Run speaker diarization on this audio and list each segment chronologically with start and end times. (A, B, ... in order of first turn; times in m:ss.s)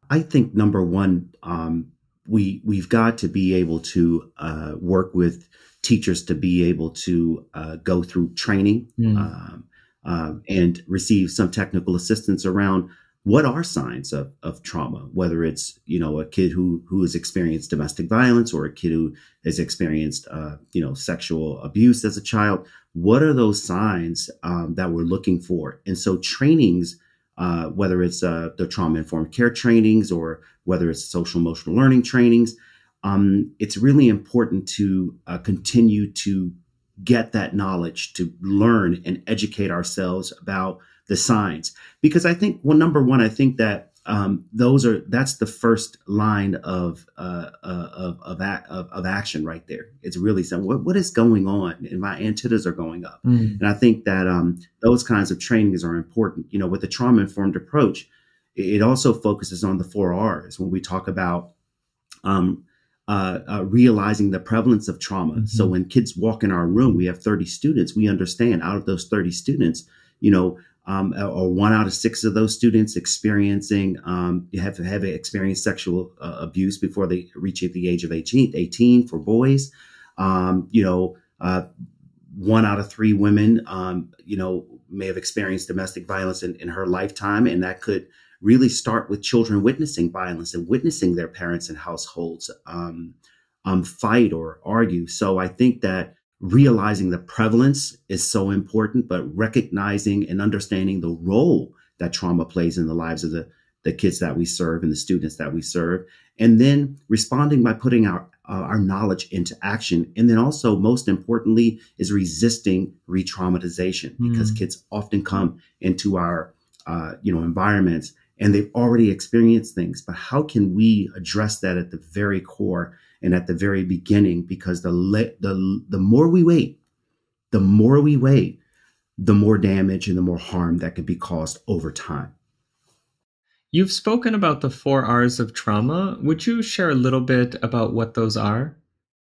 0:00.1-1:01.5 A
0:09.0-0:09.3 B
0:53.2-0:53.6 B
1:02.2-1:21.6 A
1:05.4-1:05.7 B
1:22.3-1:33.1 A
1:33.6-2:06.7 A
1:54.2-1:54.6 B
2:07.5-2:08.6 A
2:09.2-2:12.3 A
2:13.7-2:18.7 B